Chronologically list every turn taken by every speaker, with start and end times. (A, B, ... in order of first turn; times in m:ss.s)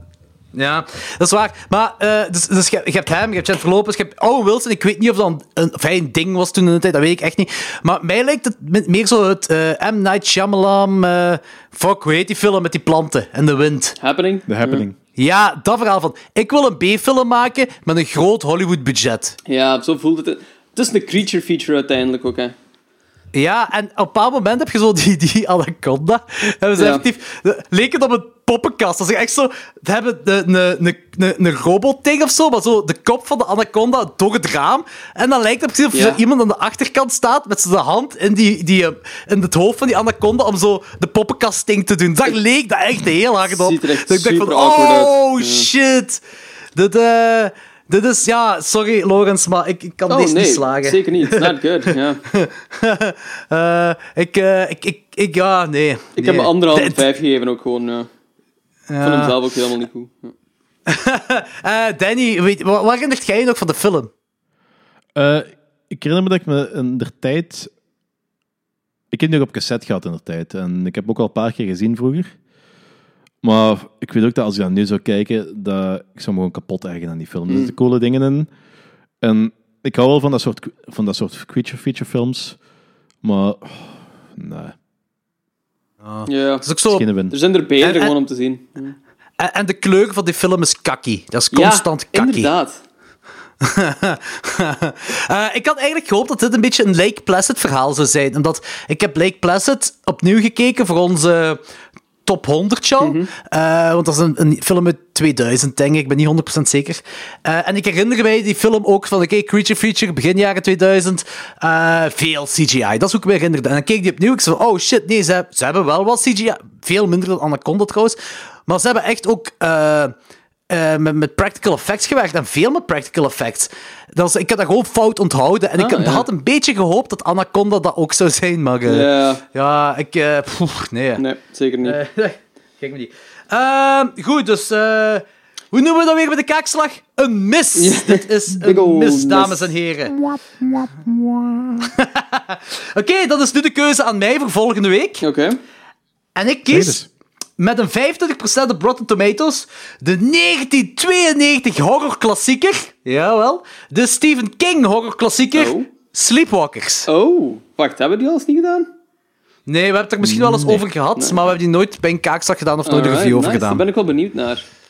0:00.5-0:14.0 A
0:14.0-0:14.8 B
0:14.5-0:15.0 C
0:15.2-0:19.4 A
0:19.4-0:22.5 B
0:23.3-0:46.2 A
0:26.8-0:27.0 B
0:35.9-0:36.2 B
0:43.5-0:45.7 B
0:46.7-0:51.6 A
0:50.1-0:52.2 B
0:52.2-0:57.0 A
0:56.2-0:58.1 B
0:58.9-0:59.4 A
0:59.0-1:00.3 B
1:00.9-1:04.1 A
1:05.1-1:07.7 C
1:09.1-1:12.3 C
1:13.4-1:18.5 C
1:17.5-1:17.7 B
1:19.2-1:22.6 C
1:23.2-1:24.7 C
1:26.0-1:27.0 A
1:26.2-1:26.7 B
1:26.9-1:27.3 C
1:27.3-1:29.0 B
1:27.8-1:28.1 A
1:29.4-1:32.5 A
1:31.5-1:32.8 B
1:33.6-1:41.6 A
1:42.2-2:00.1 A
1:43.0-1:43.3 B
2:00.7-2:11.2 A
2:05.8-2:06.3 B
2:08.8-2:09.4 B
2:11.2-2:12.0 B
2:11.8-2:20.2 A
2:17.7-2:19.7 B
2:21.8-2:25.2 A
2:25.2-2:25.6 B
2:26.3-2:27.0 A
2:26.7-2:27.1 C
2:27.6-2:37.1 A
2:35.5-2:35.9 B
2:37.1-2:38.9 B
2:39.6-2:43.8 A
2:40.2-2:40.8 C
2:41.2-2:41.5 B
2:42.8-2:44.6 B